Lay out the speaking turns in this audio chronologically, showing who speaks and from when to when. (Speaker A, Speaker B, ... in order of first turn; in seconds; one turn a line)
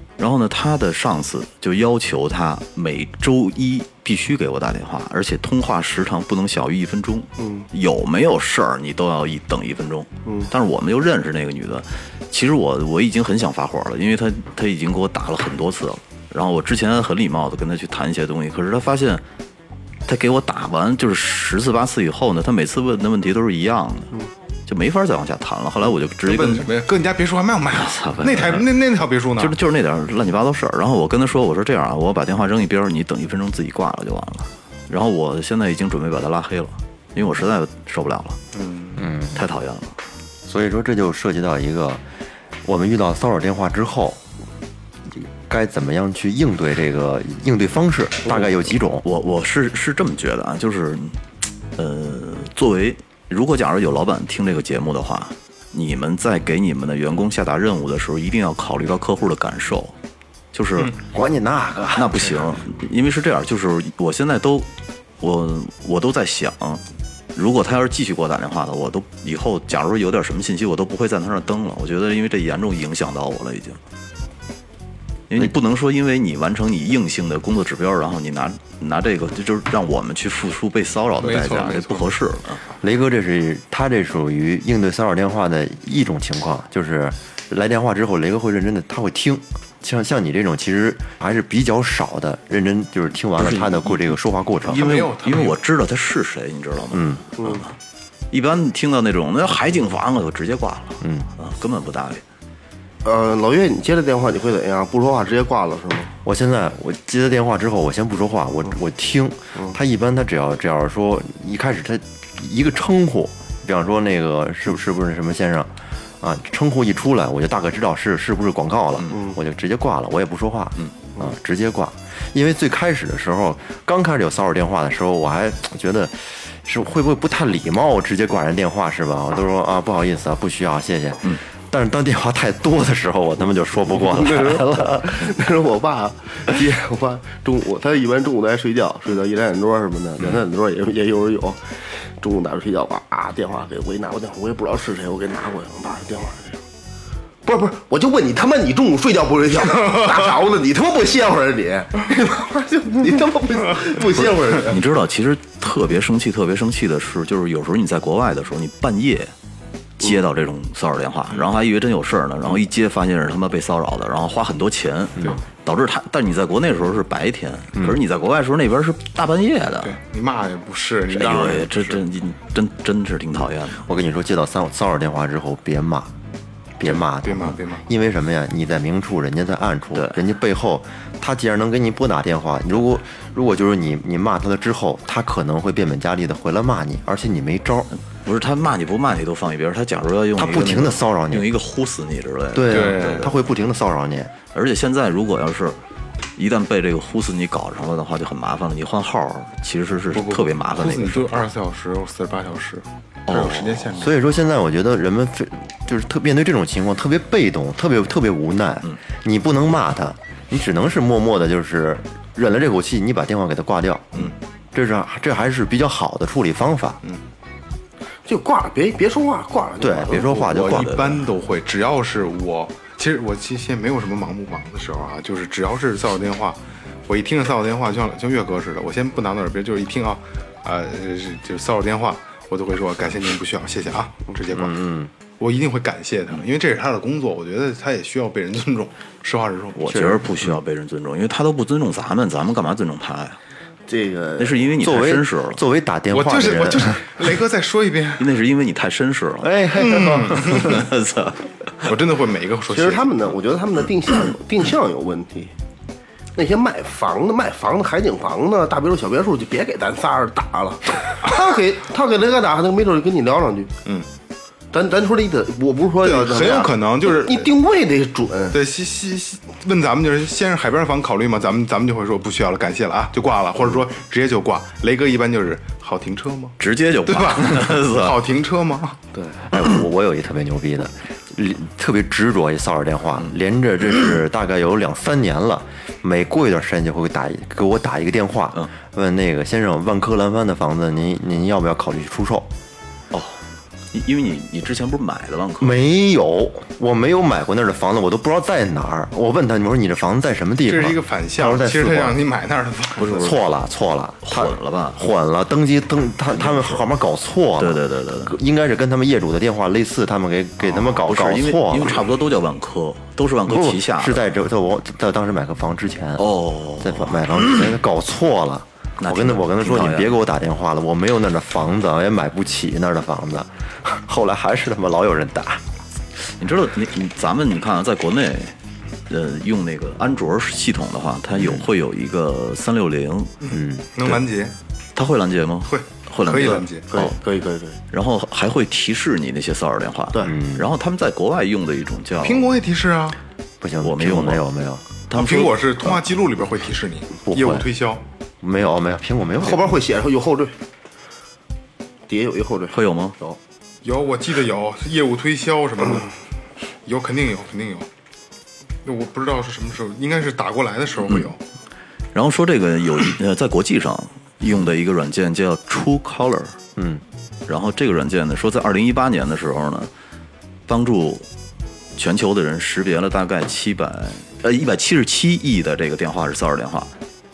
Speaker A: 0.2-19.2
Speaker B: 7.4-7.7
Speaker A: 20.1-24.1
Speaker A: 24.7-26.7
Speaker C: 26.2-29.5
Speaker A: 27.7-38.4
Speaker C: 38.5-39.1
Speaker D: 39.0-39.4
Speaker A: 39.3-40.0
Speaker D: 40.5-42.0
Speaker D: 42.6-44.2
Speaker D: 45.1-49.1
Speaker A: 48.3-51.2
Speaker A: 51.8-59.9
Speaker A: 60.5-61.0
Speaker D: 61.1-62.3
Speaker A: 62.0-64.7
Speaker A: 65.2-66.8
Speaker A: 67.3-73.8
Speaker A: 75.3-82.6
Speaker C: 81.2-82.1
Speaker D: 82.8-94.9
Speaker A: 93.4-94.0
Speaker C: 94.7-95.6
Speaker A: 94.7-97.7
Speaker D: 96.9-97.2
Speaker A: 98.3-102.2
Speaker D: 101.0-101.3
Speaker B: 103.0-106.1
Speaker D: 106.2-135.2
Speaker B: 133.9-141.6
Speaker B: 142.2-146.6
Speaker B: 147.4-154.8
Speaker C: 149.8-150.1
Speaker A: 154.6-159.3
Speaker A: 160.0-170.0
Speaker C: 169.8-172.0
Speaker A: 171.1-173.8
Speaker D: 173.8-176.1
Speaker D: 176.8-187.9
Speaker C: 176.8-177.8
Speaker A: 179.9-180.2
Speaker A: 188.2-193.3
Speaker D: 190.4-191.5
Speaker D: 192.5-194.3
Speaker C: 192.7-193.3
Speaker A: 194.5-195.8
Speaker A: 196.4-201.4
Speaker C: 200.1-204.2
Speaker A: 203.3-203.9
Speaker D: 203.9-217.0
Speaker B: 218.3-220.2
Speaker D: 219.8-221.0
Speaker A: 220.1-221.2
Speaker C: 220.2-234.8
Speaker D: 234.5-235.1
Speaker C: 235.4-240.0
Speaker A: 239.8-243.4
Speaker D: 239.9-240.3
Speaker B: 243.9-244.6
Speaker A: 244.4-245.6
Speaker D: 244.8-247.0
Speaker C: 246.1-248.3
Speaker A: 248.2-249.6
Speaker D: 249.4-250.9
Speaker C: 249.8-250.8
Speaker A: 250.5-251.9
Speaker C: 251.8-253.1
Speaker B: 252.7-255.5
Speaker B: 256.4-263.7
Speaker B: 264.7-268.6
Speaker C: 266.0-267.5
Speaker C: 268.5-279.0
Speaker A: 276.6-278.3
Speaker D: 279.5-292.5
Speaker A: 293.1-293.4
Speaker A: 293.9-295.8
Speaker D: 295.6-302.2
Speaker C: 300.7-303.3
Speaker A: 303.0-303.4
Speaker D: 303.1-312.0
Speaker A: 304.2-305.1
Speaker A: 306.3-306.9
Speaker A: 307.6-308.4
Speaker A: 310.6-314.2
Speaker D: 313.5-325.6
Speaker A: 316.2-317.8
Speaker A: 319.0-320.2
Speaker A: 326.3-328.6
Speaker A: 329.1-333.4
Speaker D: 331.4-331.7
Speaker C: 333.4-334.6
Speaker D: 333.5-333.9
Speaker A: 335.0-337.1
Speaker C: 335.7-336.9
Speaker B: 336.9-337.8
Speaker A: 337.9-342.5
Speaker D: 340.2-340.7
Speaker C: 342.2-343.2
Speaker D: 343.6-344.9
Speaker A: 343.8-344.5
Speaker A: 345.1-346.0
Speaker C: 345.1-348.0
Speaker D: 347.3-347.7
Speaker D: 348.4-349.8
Speaker B: 349.4-350.6
Speaker B: 352.1-353.4
Speaker A: 352.7-353.2
Speaker C: 353.8-356.1
Speaker C: 356.9-357.9
Speaker C: 358.8-361.4
Speaker A: 362.1-366.6
Speaker D: 366.8-367.0
Speaker A: 367.5-369.9
Speaker A: 370.7-371.3
Speaker A: 372.0-376.9